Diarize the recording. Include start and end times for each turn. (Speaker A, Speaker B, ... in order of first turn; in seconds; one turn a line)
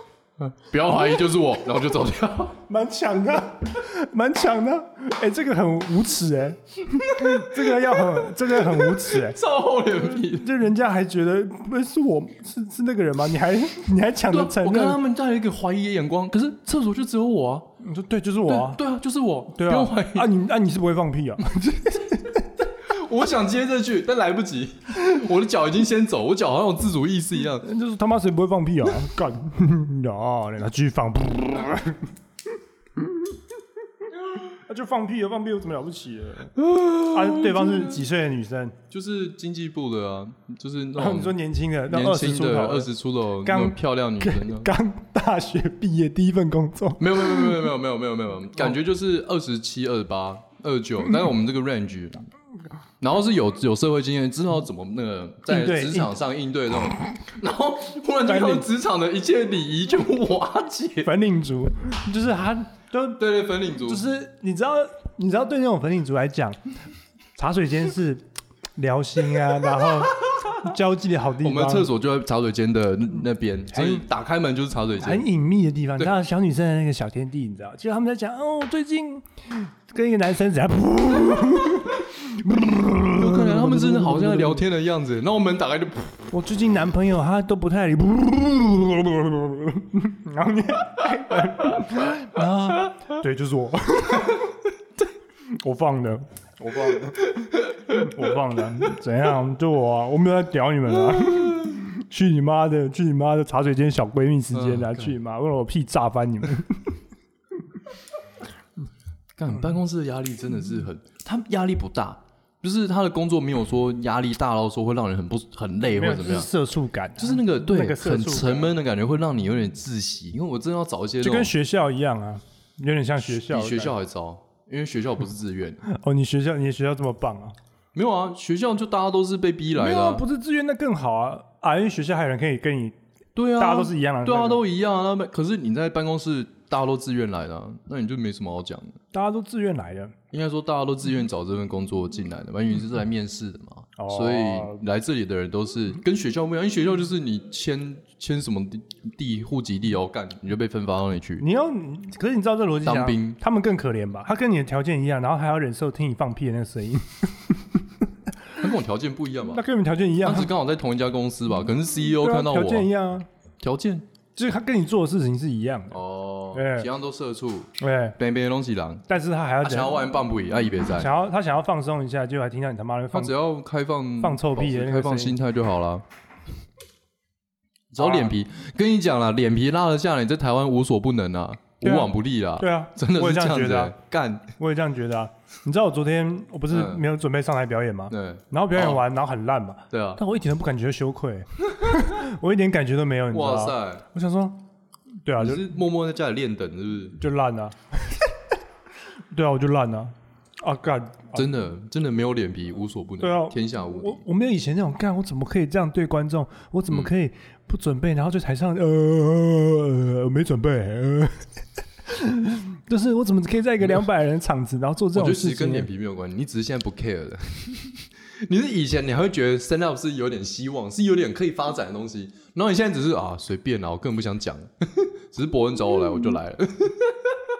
Speaker A: 0.4-2.6
Speaker B: 2.7-9.4
Speaker A: 7.2-10.6
Speaker B: 10.2-15.0
Speaker A: 14.3-17.7
Speaker B: 17.8-18.8
Speaker A: 18.5-20.3
Speaker B: 19.5-22.5
Speaker A: 22.7-27.7
Speaker B: 27.6-32.1
Speaker B: 34.3-38.8
Speaker A: 36.6-38.0
Speaker A: 38.9-44.7
Speaker B: 41.0-42.9
Speaker B: 43.4-47.7
Speaker A: 47.0-52.3
Speaker A: 53.0-61.1
Speaker B: 55.5-56.1
Speaker B: 58.3-58.7
Speaker B: 61.0-66.6
Speaker A: 63.2-64.1
Speaker B: 67.4-68.2
Speaker B: 68.8-71.9
Speaker A: 69.8-70.6
Speaker A: 71.4-75.3
Speaker B: 73.7-74.0
Speaker B: 75.0-84.7
Speaker A: 83.1-86.3
Speaker B: 86.3-94.5
Speaker B: 95.5-107.0
Speaker A: 97.4-98.2
Speaker A: 101.1-101.8
Speaker A: 104.5-105.1
Speaker A: 109.4-116.5
Speaker B: 115.9-118.7
Speaker A: 117.2-121.5
Speaker B: 121.2-124.0
Speaker A: 123.2-125.8
Speaker B: 125.8-127.5
Speaker A: 127.9-130.2
Speaker B: 129.8-133.0
Speaker A: 133.4-139.0
Speaker B: 133.5-134.6
Speaker B: 139.1-140.2
Speaker A: 140.3-151.4
Speaker B: 144.0-144.8
Speaker B: 151.4-157.9
Speaker A: 152.8-153.4
Speaker A: 158.6-159.6
Speaker B: 159.5-160.5
Speaker A: 160.2-162.9
Speaker B: 162.1-163.3
Speaker A: 163.6-164.1
Speaker B: 164.3-166.0
Speaker A: 165.9-169.1
Speaker B: 166.5-166.9
Speaker B: 167.8-168.2
Speaker B: 169.1-170.0
Speaker A: 169.6-171.1
Speaker B: 170.9-173.4
Speaker A: 173.1-176.1
Speaker B: 174.2-175.4
Speaker A: 177.9-184.6
Speaker B: 178.0-178.3
Speaker B: 181.8-183.9
Speaker B: 184.6-194.6
Speaker A: 186.7-187.0
Speaker A: 188.1-189.0
Speaker A: 189.9-190.2
Speaker A: 193.3-194.0
Speaker B: 195.2-195.7
Speaker A: 195.4-197.2
Speaker B: 197.2-198.3
Speaker B: 199.3-201.5
Speaker A: 201.3-204.2
Speaker B: 203.2-211.4
Speaker B: 212.1-215.9
Speaker A: 215.1-227.4